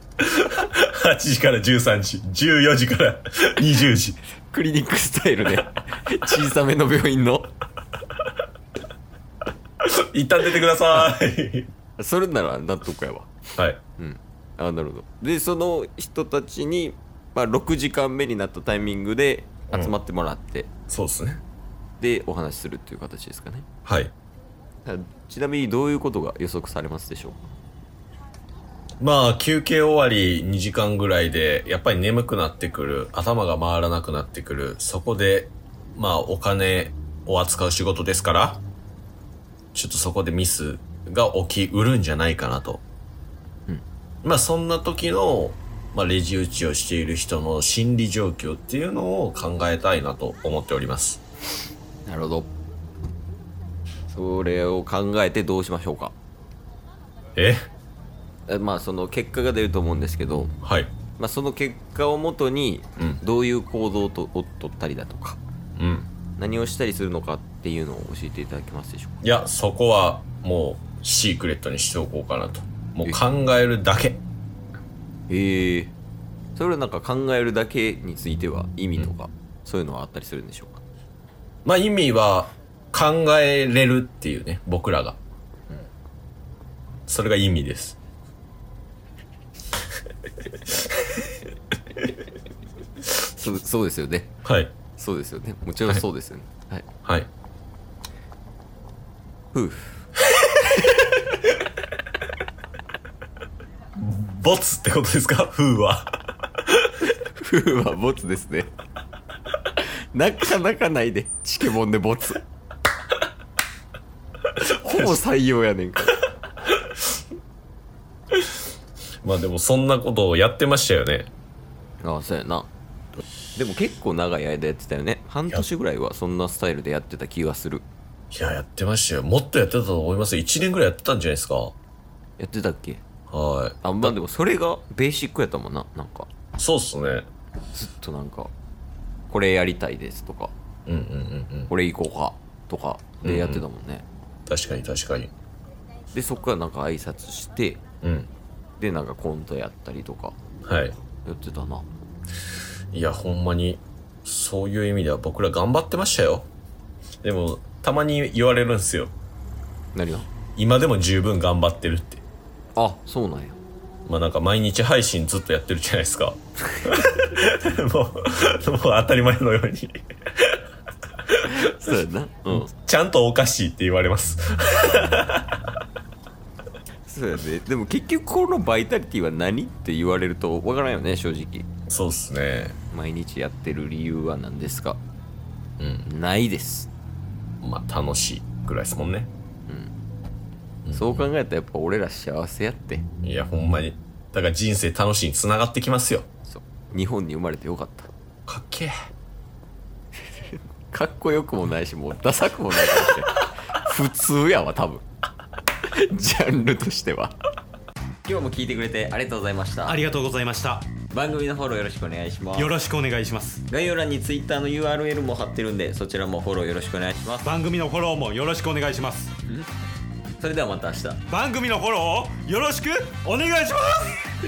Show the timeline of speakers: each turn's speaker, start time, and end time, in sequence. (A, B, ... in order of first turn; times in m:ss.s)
0:00.2-0:04.2 A
0:04.5-0:07.5 B
0:09.8-0:11.7 A
0:12.0-0:13.3 B
0:14.0-0:20.7 B
0:20.9-0:21.4 A
0:22.0-0:23.7 B
0:23.8-0:24.1 A
0:24.8-0:27.4 B
0:29.0-0:38.6 A
0:39.7-0:42.8 A
0:44.2-0:51.2 A
0:52.0-0:52.5 B
0:54.1-0:56.1 B
0:57.4-0:57.7 A
0:58.5-1:00.5 B
1:00.6-1:00.9 A
1:01.2-1:05.4 B
1:05.8-1:06.1 A
1:06.4-1:09.2 B
1:09.2-1:14.2 A
1:15.3-1:15.9 B
1:16.5-1:20.8 B
1:21.6-1:25.2 A
1:27.1-1:28.0 A
1:33.2-1:34.3 B
1:34.4-1:34.7 A
1:34.9-1:36.9 B
1:39.5-1:40.0 B
1:40.8-1:41.1 B
1:44.0-1:46.1 A
1:46.6-1:47.1 A
1:47.4-1:48.7 B
1:49.8-1:52.4 B
1:54.6-1:56.2 B
1:54.8-1:55.2 A
1:56.8-1:57.0 A
1:58.3-1:58.6 A
1:59.2-2:01.3 A
2:02.0-2:02.7 B
2:03.5-2:07.8 B
2:08.3-2:11.7 A
2:12.4-2:13.0 B
2:13.3-2:14.1 A
2:13.8-2:16.3 B
2:16.6-2:17.2 A
2:17.8-2:18.5 B
2:19.3-2:20.5 B
2:20.9-2:21.7 A
2:21.7-2:24.0 B
2:23.2-2:23.6 A
2:24.4-2:25.3 A
2:26.1-2:27.8 B
2:28.0-2:28.3 A
2:28.8-2:30.4 B
2:30.6-2:31.0 A
2:31.2-2:31.9 B
2:32.9-2:36.5 A
2:37.2-2:39.1 A
2:39.9-2:40.3 B
2:40.6-2:42.2 A
2:42.8-2:43.6 B
2:44.0-2:50.6 A
2:51.3-2:51.6 A
2:51.4-2:52.7 B
2:52.5-2:55.5 A
2:57.0-3:01.7 B
3:01.9-3:02.8 A
3:02.9-3:05.0 B
3:05.8-3:06.0 A
3:06.0-3:06.9 B
3:07.6-3:09.3 A
3:09.7-3:09.9 B
3:10.8-3:11.3 A
3:10.9-3:13.0 B
3:13.2-3:16.3 A
3:16.5-3:18.1 B
3:18.5-3:19.1 A
3:20.3-3:25.0 B
3:25.8-3:27.4 B
3:28.2-3:30.0 B
3:29.9-3:30.9 C
3:31.1-3:32.8 B
3:32.6-3:33.6 C
3:33.7-3:37.5 B
3:37.4-3:39.3 C
3:40.4-3:41.2 B
3:41.3-3:44.2 C